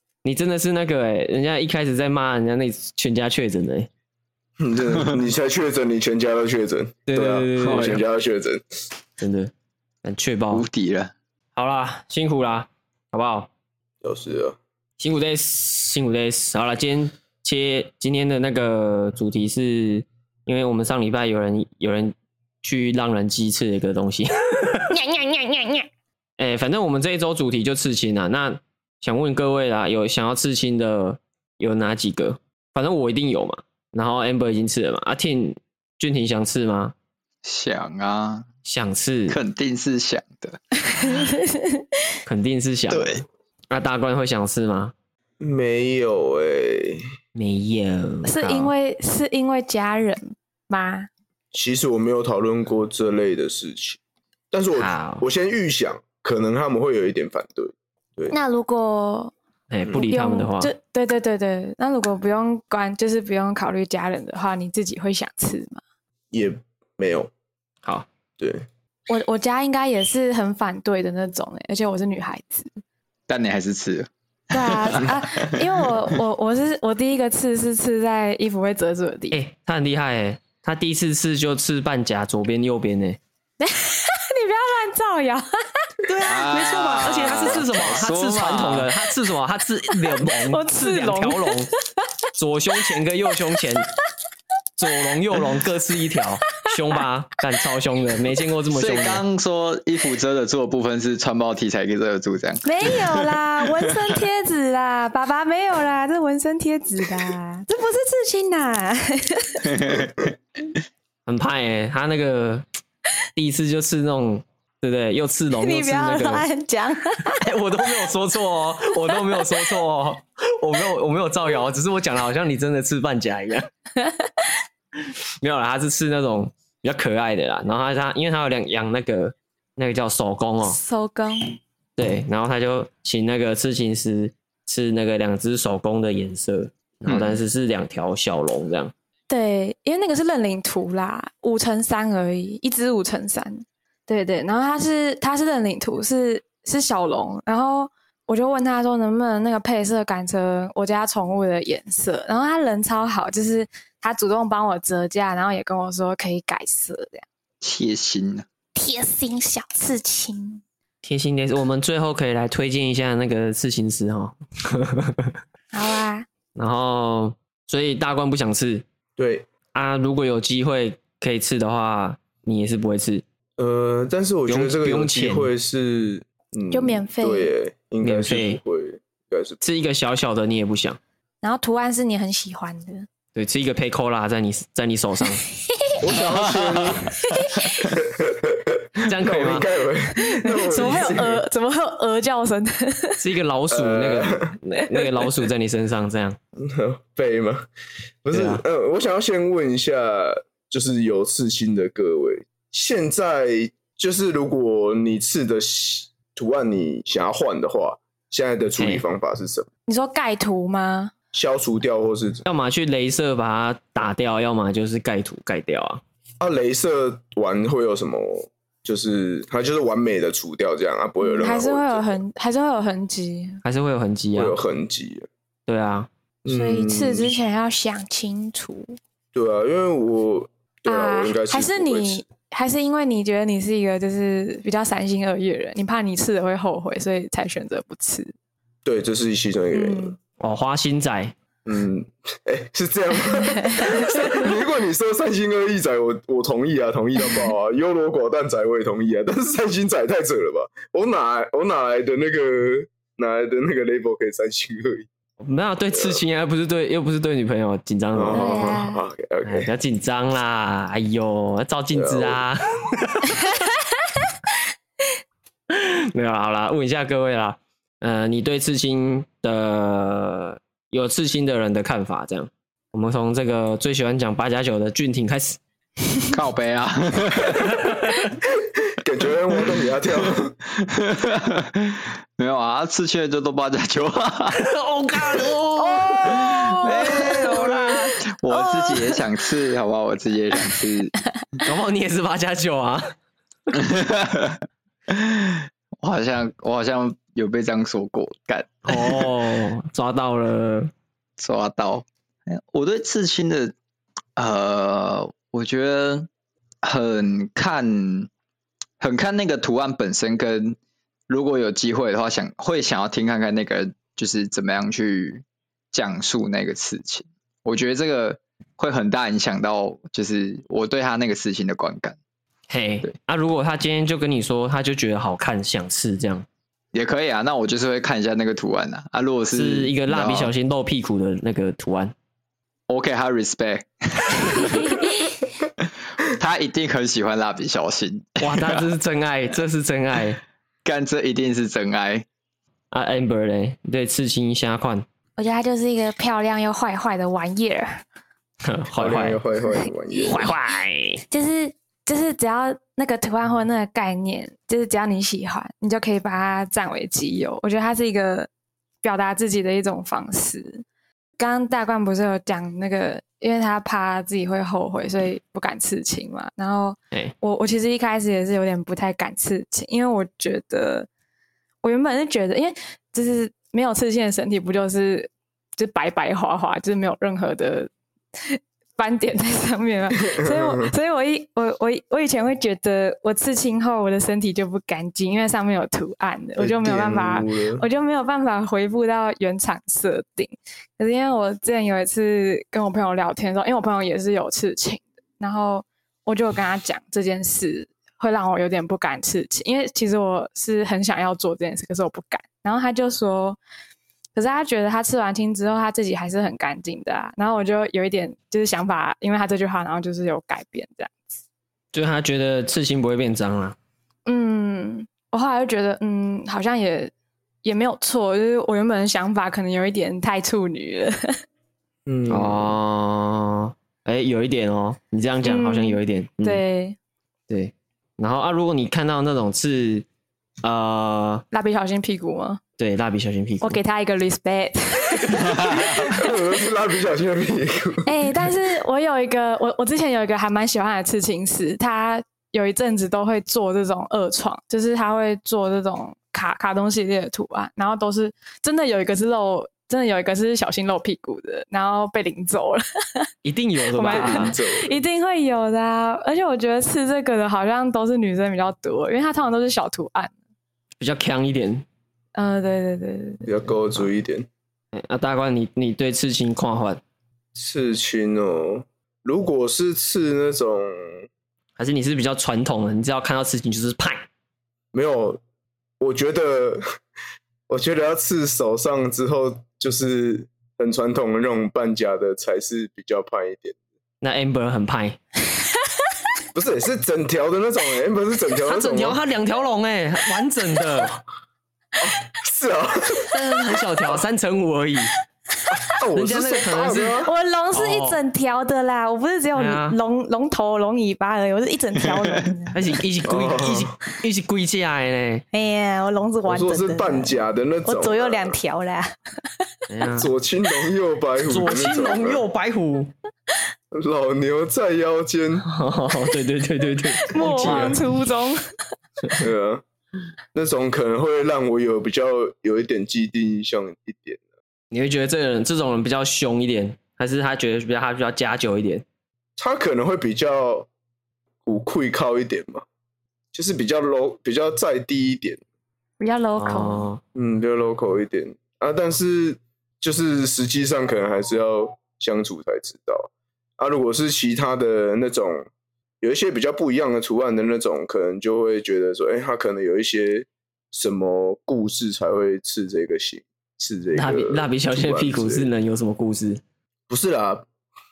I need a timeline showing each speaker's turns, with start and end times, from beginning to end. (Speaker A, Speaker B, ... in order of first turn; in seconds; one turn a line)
Speaker A: 0.2-3.9
Speaker B: 4.6-8.6
Speaker A: 7.1-8.0
Speaker C: 7.6-8.0
Speaker A: 9.2-9.5
Speaker A: 10.0-10.7
Speaker C: 10.5-11.1
Speaker A: 11.6-13.5
Speaker B: 14.0-14.6
Speaker A: 15.0-24.9
Speaker D: 24.9-25.9
Speaker A: 26.4-36.9
Speaker C: 37.4-38.5
Speaker A: 38.7-39.4
Speaker C: 39.3-41.2
Speaker D: 40.9-41.9
Speaker A: 42.3-44.9
Speaker C: 42.9-43.2
Speaker B: 45.4-47.0
Speaker A: 47.4-48.7
Speaker D: 48.3-51.1
Speaker B: 51.5-54.0
Speaker B: 54.5-58.4
Speaker A: 54.8-55.3
Speaker D: 58.3-59.3
Speaker A: 59.7-60.7
Speaker D: 60.0-65.8
Speaker B: 66.3-67.3
Speaker B: 68.4-68.7
Speaker D: 69.1-72.8
Speaker C: 73.3-75.6
Speaker D: 74.5-79.4
Speaker A: 79.3-83.2
Speaker D: 83.6-87.6
Speaker A: 86.1-91.7
Speaker C: 86.2-88.9
Speaker D: 90.0-92.0
Speaker A: 92.3-93.9
Speaker A: 94.8-99.2
Speaker C: 98.7-103.9
Speaker D: 102.6-109.7
Speaker C: 109.6-110.3
Speaker A: 111.3-112.7
Speaker A: 113.3-116.5
Speaker D: 115.6-117.4
Speaker A: 117.3-123.7
Speaker A: 125.0-130.8
Speaker D: 130.6-131.5
Speaker A: 132.0-138.9
Speaker C: 137.1-137.4
Speaker D: 139.3-157.3
Speaker C: 157.6-158.5
Speaker D: 158.8-160.6
Speaker A: 161.0-165.3
Speaker D: 165.7-166.3
Speaker A: 166.6-168.8
Speaker B: 169.2-169.5
Speaker A: 169.7-173.2
Speaker B: 173.6-179.6
Speaker A: 174.5-175.5
Speaker D: 176.7-177.5
Speaker A: 178.0-178.6
Speaker A: 179.6-181.0
Speaker D: 181.4-183.1
Speaker A: 183.3-185.4
Speaker B: 186.0-187.1
Speaker C: 186.2-187.9
Speaker D: 187.2-187.9
Speaker B: 187.9-191.4
Speaker A: 189.0-189.7
Speaker D: 190.2-193.2
Speaker A: 190.7-191.1
Speaker A: 193.2-196.4
Speaker B: 193.7-194.5
Speaker B: 196.6-197.7
Speaker B: 198.2-209.7
Speaker A: 198.3-198.6
Speaker D: 209.9-211.1
Speaker B: 211.3-212.4
Speaker A: 212.4-216.0
Speaker B: 216.4-222.2
Speaker D: 221.2-223.6
Speaker A: 223.6-224.5
Speaker B: 224.3-225.3
Speaker A: 225.7-226.1
Speaker B: 226.4-227.3
Speaker D: 226.5-228.9
Speaker B: 229.3-232.3
Speaker D: 230.9-238.3
Speaker B: 238.8-240.2
Speaker D: 239.7-240.2
Speaker A: 240.4-241.3
Speaker B: 241.7-255.1
Speaker D: 243.7-244.0
Speaker A: 255.4-258.7
Speaker B: 255.9-256.2
Speaker B: 258.1-259.7
Speaker D: 258.3-259.0
Speaker A: 259.4-263.6
Speaker B: 261.9-262.4
Speaker A: 265.7-275.6
Speaker C: 276.3-277.9
Speaker B: 278.4-280.6
Speaker C: 280.7-284.6
Speaker A: 284.5-288.1
Speaker D: 285.8-289.2
Speaker C: 286.2-291.1
Speaker A: 291.6-293.1
Speaker C: 293.7-299.3
Speaker A: 298.9-300.9
Speaker C: 301.4-303.8
Speaker C: 304.4-306.3
Speaker C: 306.8-308.3
Speaker C: 309.0-310.8
Speaker C: 311.3-322.2
Speaker A: 322.7-326.5
Speaker C: 326.9-330.5
Speaker A: 329.5-332.1
Speaker C: 332.9-338.9
Speaker A: 338.4-340.4
Speaker C: 340.9-342.3
Speaker A: 342.9-345.1
Speaker D: 345.4-348.0
Speaker A: 348.6-349.4
Speaker B: 349.0-350.5
Speaker A: 350.2-351.2
Speaker D: 351.3-358.5
Speaker D: 359.0-360.8
Speaker D: 361.4-371.1
Speaker D: 371.8-403.6
Speaker B: 380.3-380.9
Speaker B: 386.6-387.9
Speaker D: 404.4-411.4
Speaker A: 411.9-413.8
Speaker D: 414.3-417.1
Speaker D: 417.6-421.3
Speaker B: 422.1-422.7
Speaker A: 422.3-426.6
Speaker D: 425.4-427.0
Speaker A: 427.5-430.1
Speaker A: 430.6-431.4
Speaker D: 431.5-432.6
Speaker A: 432.8-433.8
Speaker D: 433.6-436.3
Speaker B: 435.8-438.5
Speaker D: 438.1-453.3
Speaker A: 453.4-454.6
Speaker D: 453.9-460.3
Speaker B: 454.0-455.0
Speaker A: 461.0-461.9
Speaker D: 462.4-463.5
Speaker B: 463.4-464.5
Speaker A: 464.9-467.0
Speaker B: 467.6-471.3
Speaker A: 471.8-474.3
Speaker B: 474.9-475.4
Speaker B: 476.0-476.8
Speaker B: 477.7-483.8
Speaker A: 484.2-485.2
Speaker B: 486.5-489.2
Speaker A: 488.7-491.2
Speaker B: 492.0-493.3
Speaker A: 493.3-495.1
Speaker B: 495.7-497.3
Speaker A: 496.2-497.2
Speaker D: 497.2-502.8
Speaker A: 497.7-498.2
Speaker A: 499.6-500.0
Speaker A: 502.7-505.4
Speaker B: 503.2-504.0
Speaker D: 505.5-509.8
Speaker B: 506.5-508.6
Speaker A: 509.9-510.3
Speaker B: 510.1-512.5
Speaker A: 511.5-513.1
Speaker B: 513.9-515.7
Speaker A: 515.6-518.0
Speaker D: 517.2-518.6
Speaker B: 517.4-518.0
Speaker B: 519.4-519.8
Speaker B: 520.5-524.4
Speaker A: 524.9-529.0
Speaker B: 529.6-530.9
Speaker B: 531.7-532.9
Speaker B: 533.5-535.6
Speaker D: 536.2-537.1
Speaker A: 536.6-537.2
Speaker B: 537.4-545.7
Speaker B: 546.2-555.7
Speaker A: 554.1-556.6
Speaker B: 557.1-557.7